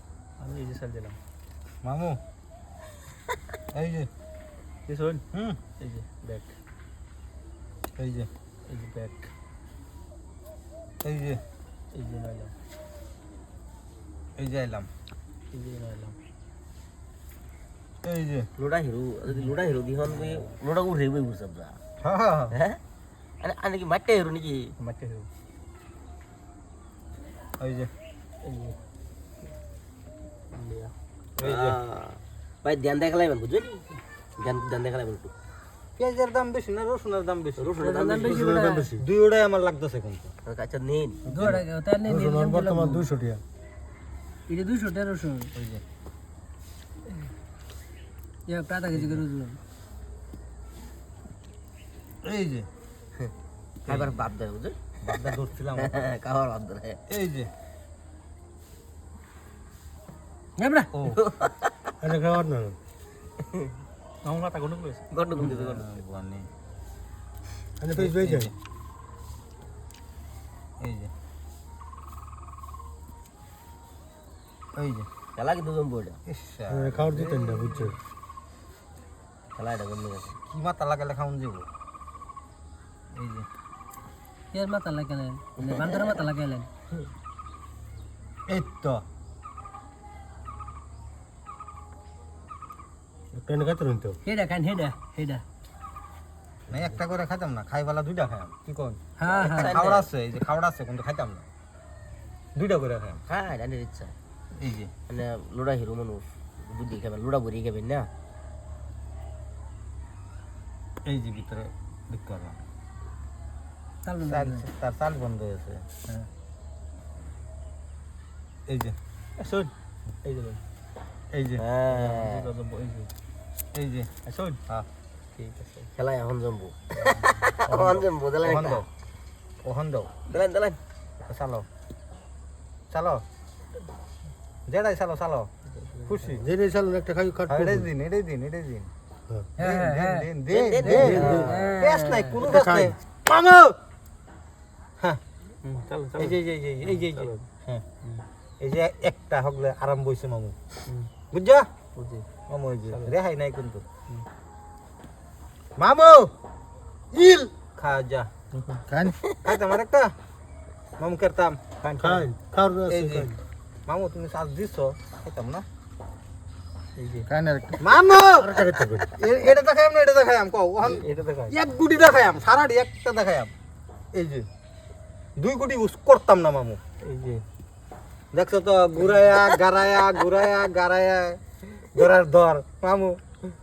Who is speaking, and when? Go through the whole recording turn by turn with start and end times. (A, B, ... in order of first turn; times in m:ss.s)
0:00.4-0:01.2 A
0:01.8-0:02.2 B
0:03.7-0:04.1 B
0:04.9-0:05.2 A
0:05.3-0:05.6 B
0:05.8-0:06.5 A
0:08.0-0:08.3 B
0:08.7-0:09.3 A
0:11.0-0:11.4 B
0:11.9-0:12.5 A
0:14.4-0:14.9 B
0:15.5-0:16.2 A
0:18.0-0:18.5 B
0:18.6-0:21.8 C
0:20.1-0:20.5 A
0:22.0-0:22.6 B
0:22.5-0:22.8 C
0:23.4-0:24.7 C
0:24.8-0:25.3 A
0:27.6-0:27.9 B
0:28.4-0:28.8 A
0:30.5-0:30.9 A
0:31.4-0:31.8 B
0:31.4-0:33.8 C
0:34.4-0:35.3 C
0:36.0-0:37.7 B
0:37.6-0:38.7 C
0:37.8-0:38.9 D
0:38.2-0:39.0 E
0:39.0-0:40.3 B
0:40.4-0:41.2 C
0:41.3-0:41.6 B
0:41.3-0:43.1 D
0:42.0-0:43.4 E
0:44.5-0:45.5 D
0:45.5-0:45.8 B
0:48.5-0:49.6 D
0:52.2-0:52.7 B
0:53.8-0:54.8 C
0:53.9-0:54.2 B
0:55.0-0:56.0 B
0:55.7-0:57.0 C
0:57.1-0:57.5 B
1:00.6-1:00.9 D
1:00.9-1:01.2 B
1:01.1-1:01.7 C
1:02.0-1:02.8 E
1:04.2-1:05.1 A
1:05.1-1:05.9 C
1:05.4-1:06.5 B
1:07.8-1:08.5 E
1:07.9-1:08.5 B
1:10.8-1:11.1 B
1:14.7-1:15.1 B
1:15.4-1:16.2 C
1:16.3-1:17.9 B
1:16.7-1:18.0 E
1:19.6-1:20.4 C
1:20.5-1:21.7 B
1:23.1-1:23.5 B
1:24.5-1:26.7 D
1:25.6-1:26.2 C
1:28.5-1:29.0 B
1:33.3-1:34.2 E
1:34.2-1:35.4 D
1:36.7-1:41.4 B
1:39.2-1:39.7 D
1:39.3-1:40.1 C
1:42.6-1:43.2 B
1:43.2-1:44.1 C
1:44.6-1:44.9 B
1:45.1-1:48.1 C
1:51.0-1:52.6 B
1:54.0-1:54.7 D
1:54.2-1:56.2 B
1:58.7-1:59.0 B
1:59.4-1:59.7 A
2:00.2-2:00.6 A
2:01.3-2:01.6 B
2:01.6-2:02.5 C
2:01.9-2:03.1 A
2:03.7-2:04.1 B
2:04.2-2:04.6 A
2:05.3-2:05.9 A
2:06.0-2:08.9 C
2:07.7-2:08.9 B
2:09.6-2:10.1 B
2:10.3-2:10.8 C
2:11.2-2:11.7 B
2:12.9-2:13.2 B
2:14.7-2:15.5 B
2:15.8-2:16.4 A
2:16.1-2:16.5 B
2:16.4-2:17.9 E
2:17.5-2:18.9 B
2:19.6-2:20.3 D
2:19.6-2:23.8 B
2:20.5-2:21.8 C
2:20.8-2:22.5 D
2:20.9-2:21.5 E
2:22.5-2:22.9 E
2:25.6-2:27.5 A
2:26.2-2:27.8 B
2:28.6-2:30.6 B
2:31.3-2:31.7 B
2:32.0-2:32.3 A
2:32.5-2:33.8 B
2:32.9-2:33.1 A
2:35.8-2:36.3 B
2:37.1-2:37.5 E
2:37.8-2:38.3 B
2:38.5-2:38.8 A
2:38.9-2:39.2 E
2:39.4-2:40.1 B
2:41.0-2:41.6 B
2:41.8-2:42.3 A
2:42.0-2:43.3 E
2:42.9-2:43.3 B
2:43.9-2:45.6 B
2:47.0-2:47.3 A
2:47.3-2:47.8 E
2:47.8-2:53.5 B
2:48.4-2:49.1 E
2:51.0-2:51.6 A
2:54.1-2:54.5 B
2:55.4-2:56.8 B
2:57.0-2:57.4 A
2:58.3-3:01.4 B
3:01.9-3:03.2 B